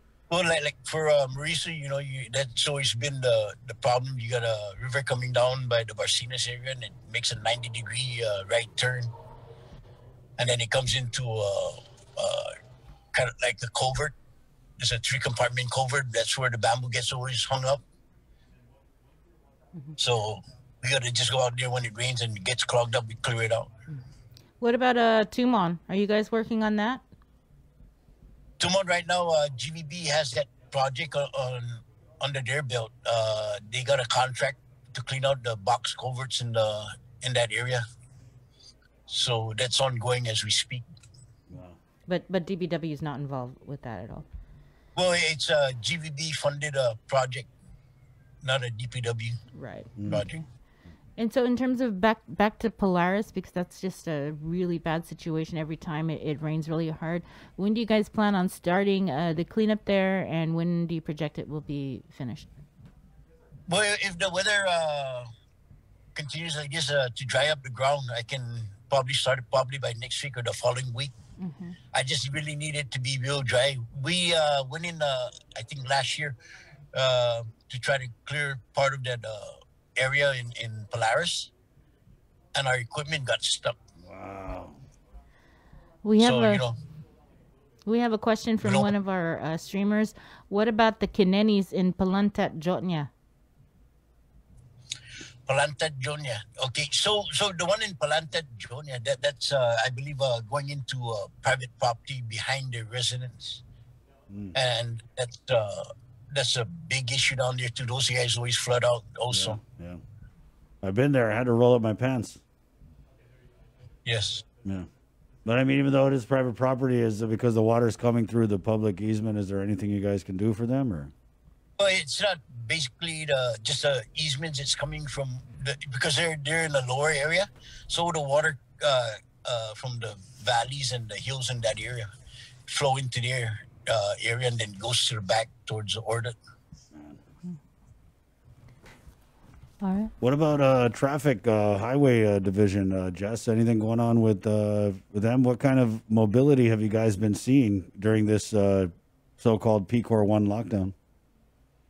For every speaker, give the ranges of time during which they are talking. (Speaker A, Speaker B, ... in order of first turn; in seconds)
Speaker A: 0.3-9.1, 10.4-12.5, 13.1-14.1, 14.8-17.8, 20.0-23.7, 28.6-37.8, 39.1-40.9, 45.0-47.5, 48.4-49.4, 50.0-50.4, 63.7-65.3, 66.2-71.1, 71.9-76.4, 76.9-81.5, 82.6-83.8, 86.2-86.8, 88.6-88.9, 95.5-103.6, 104.5-109.6, 114.0-114.5, 121.8-132.1, 132.7-136.4
Speaker B: 24.6-27.0, 42.1-44.3, 49.5-50.4, 51.2-62.5, 71.4-71.8, 86.0-86.6, 87.9-93.1, 139.8-140.1
Speaker C: 41.5-41.8, 50.0-50.2, 84.0-84.8, 104.3-104.5, 109.3-110.0, 110.8-112.4, 115.5-121.1, 136.9-137.2, 140.2-150.9